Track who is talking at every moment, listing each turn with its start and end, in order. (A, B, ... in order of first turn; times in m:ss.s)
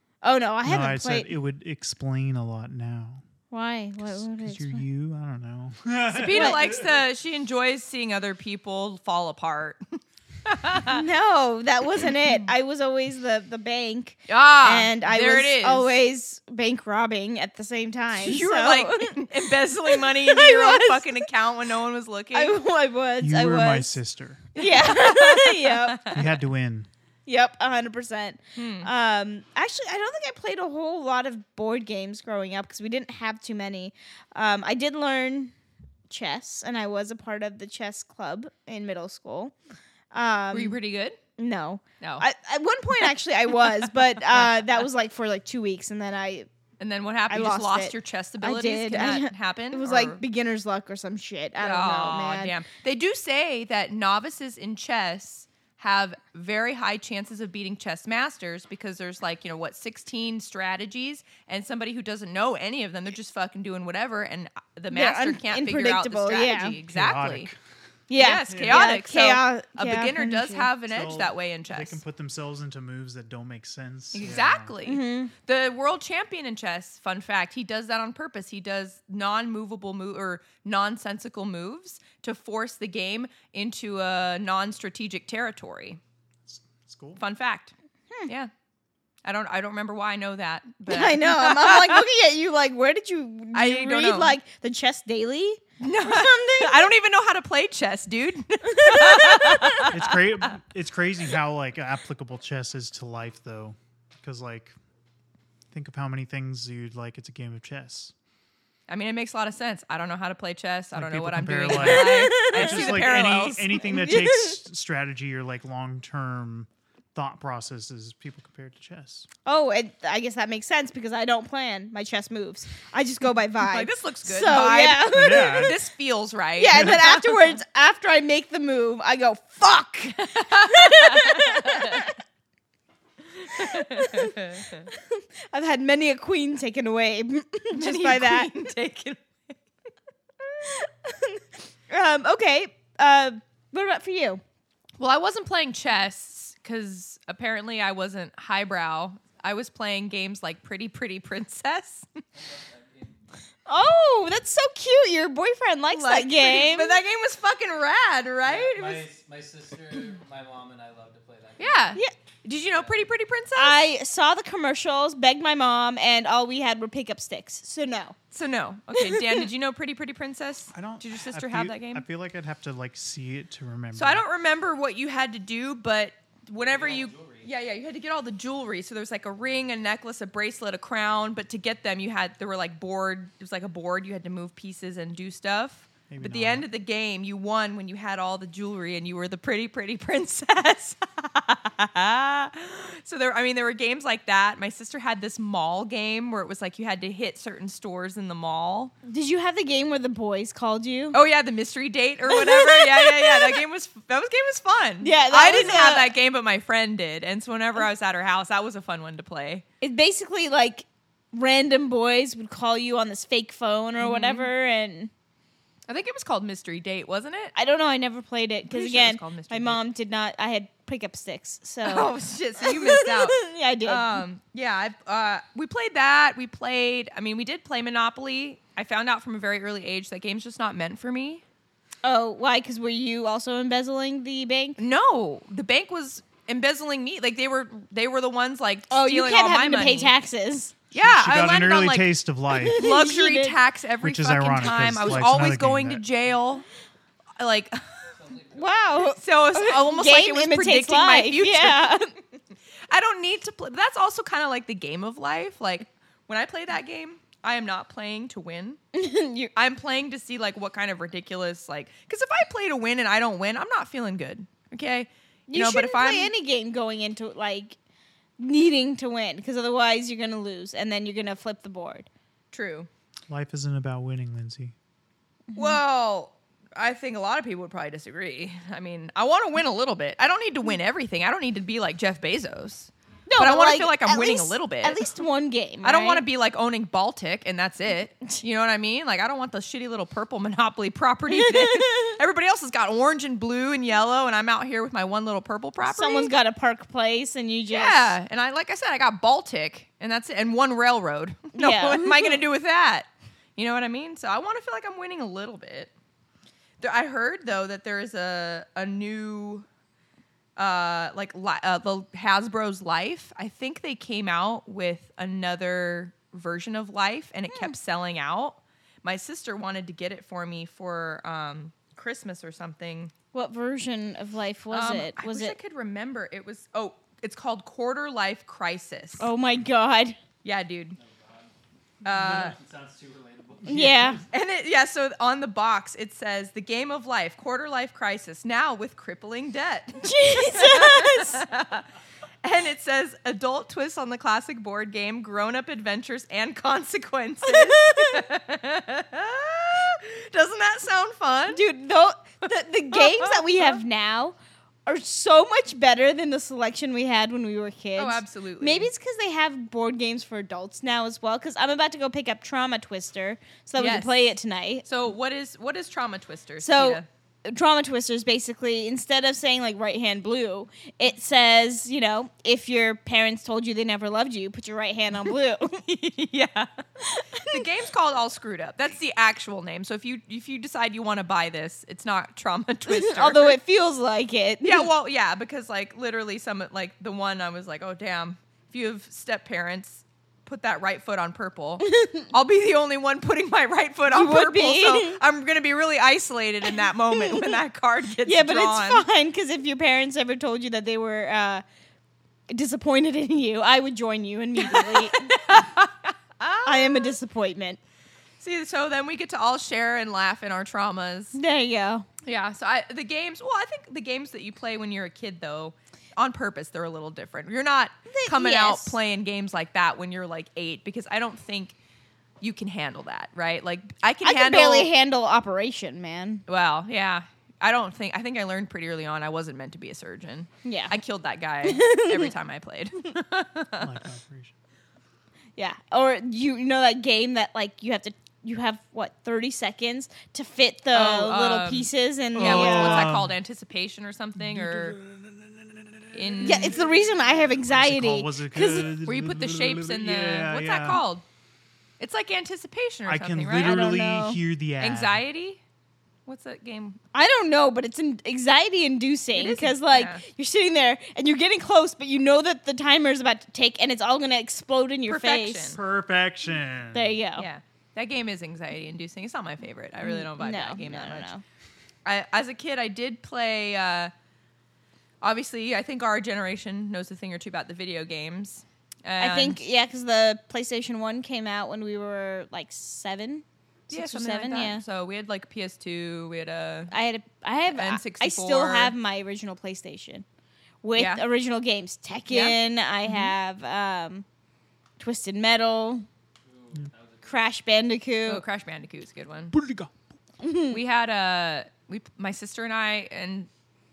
0:00.2-0:01.3 A
0:00.6-0:03.2 B
0:03.5-0:04.8 A
0:04.0-0:07.0 B
0:06.1-0:11.0 C
0:06.2-0:06.6 A
0:10.8-0:21.3 A
0:14.3-0:15.9 C
0:18.1-0:22.6 C
0:22.3-0:24.0 A
0:23.2-0:24.4 B
0:24.5-0:26.2 C
0:24.6-0:26.2 A
0:26.1-0:26.9 B
0:27.2-0:35.5 A
0:28.6-0:28.9 C
0:36.1-0:39.5 A
0:40.1-0:40.8 A
0:40.5-0:41.2 C
0:41.4-0:46.5 A
0:42.0-0:42.2 C
0:46.8-0:50.2 C
0:47.3-0:52.5 A
0:51.6-1:07.5 C
1:04.9-1:06.8 A
1:06.8-1:07.6 B
1:08.1-1:10.7 A
1:08.2-1:12.0 C
1:08.5-1:08.9 B
1:10.9-1:14.7 B
1:14.1-1:26.0 C
1:14.8-1:15.3 A
1:26.4-1:27.2 B
1:27.2-1:27.7 C
1:28.2-1:28.5 C
1:29.2-1:32.0 C
1:30.9-1:36.9 A
1:33.5-1:34.4 C
1:35.8-1:40.4 C
1:38.6-1:39.9 A
1:39.9-1:44.7 B
1:45.7-1:48.1 B
1:48.9-1:53.9 C
1:50.9-1:59.3 B
1:51.7-1:53.1 A
1:53.8-1:54.6 A
1:59.4-2:05.8 A
2:03.6-2:07.6 C
2:05.0-2:05.8 B
2:06.6-2:12.1 A
2:10.2-2:12.1 C
2:13.5-2:14.9 C
2:13.5-2:14.4 A
2:14.9-2:18.5 A
2:17.7-2:19.2 C
2:20.6-2:24.4 A
2:25.0-2:32.1 C
2:32.3-2:33.1 D
2:33.6-2:37.0 A
2:35.9-2:39.0 C
2:38.4-2:42.1 D
2:41.6-2:43.8 C
2:42.7-2:43.1 D
2:43.6-2:48.2 A
2:48.3-2:52.0 C
2:48.9-2:49.5 A
2:50.7-2:54.2 B
2:53.9-3:18.9 C
2:56.6-2:57.5 D
3:06.1-3:06.7 B
3:19.0-3:21.2 A
3:21.1-3:29.6 C
3:22.3-3:23.6 A
3:25.0-3:26.1 A
3:29.8-3:35.1 A
3:34.0-3:34.5 C
3:35.9-3:37.5 C
3:37.5-3:44.2 A
3:38.7-3:39.8 C
3:41.8-3:51.4 C
3:52.0-3:54.8 A
3:54.8-4:00.1 C
3:58.9-4:00.8 A
4:00.9-4:02.1 C
4:00.9-4:02.8 B
4:02.5-4:03.6 A
4:02.7-4:06.6 C
4:04.0-4:06.0 B
4:07.4-4:08.1 C
4:08.2-4:09.1 D
4:08.5-4:12.1 A
4:09.0-4:12.0 C
4:12.9-4:18.8 C
4:18.9-4:19.5 A
4:19.5-4:26.3 C
4:25.5-4:27.8 A
4:28.4-4:32.1 A
4:32.5-4:32.9 C
4:33.3-4:34.7 B
4:35.5-4:35.8 A
4:35.5-4:45.0 C
4:43.3-4:46.2 A
4:45.8-4:56.3 C
4:51.3-4:52.1 A
4:55.8-4:58.1 A
4:57.7-5:05.9 C
5:01.5-5:02.4 A
5:06.8-5:09.7 C
5:10.6-5:23.1 C
5:23.3-5:25.5 A
5:24.7-5:29.3 C
5:29.2-5:30.2 A
5:30.4-5:31.0 C
5:31.0-5:31.5 D
5:32.0-5:34.2 D
5:32.0-5:32.6 C
5:33.7-5:34.1 B
5:33.7-5:34.2 A
5:34.3-5:41.9 C
5:40.0-5:41.4 A
5:42.4-5:51.6 C
5:47.5-5:48.2 A
5:51.5-6:04.8 A
5:52.9-5:53.8 C
5:58.0-5:58.9 C
6:03.8-6:04.3 C
6:04.8-6:07.0 C
6:06.6-6:15.8 A
6:15.8-6:16.7 C
6:17.0-6:17.7 A
6:17.5-6:23.6 C
6:22.9-6:24.9 A
6:24.6-6:39.0 C
6:31.8-6:32.2 A
6:34.1-6:35.2 A
6:37.1-6:37.6 A
6:38.2-6:41.6 A
6:42.5-6:45.3 A
6:44.6-6:47.1 C
6:46.6-6:47.8 A
6:48.4-6:51.4 C
6:51.3-6:52.1 A
6:52.2-7:01.7 C
6:58.1-6:59.0 A
7:02.4-7:04.9 C
7:04.2-7:06.4 A
7:06.5-7:13.9 C
7:10.6-7:10.9 A
7:11.6-7:12.3 A
7:13.8-7:14.5 B
7:15.6-7:23.1 A
7:20.9-7:25.0 C
7:22.3-7:23.4 B
7:24.4-7:27.0 B
7:26.1-7:26.8 C
7:26.4-7:28.9 A
7:27.6-7:31.0 B
7:29.0-7:31.2 C
7:32.0-7:33.9 C
7:33.0-7:35.2 B
7:33.5-7:34.4 A
7:34.8-7:35.6 C
7:36.2-7:37.0 C
7:37.1-7:45.8 A
7:39.3-7:40.2 C
7:45.1-7:45.8 C
7:45.7-7:47.2 B
7:46.9-7:47.5 A
7:47.4-7:51.3 C
7:50.0-7:51.4 A
7:52.0-7:54.1 C
7:55.2-7:59.6 C
7:59.2-8:04.8 A
8:03.9-8:06.9 C
8:06.9-8:10.2 A
8:07.7-8:08.9 C
8:10.8-8:14.2 A
8:11.0-8:11.2 C
8:12.3-8:13.3 C
8:15.0-8:16.0 A
8:16.4-8:17.4 D
8:17.2-8:18.4 A
8:18.2-8:19.5 C
8:19.5-8:19.9 B
8:20.4-8:20.8 A
8:20.7-8:23.5 C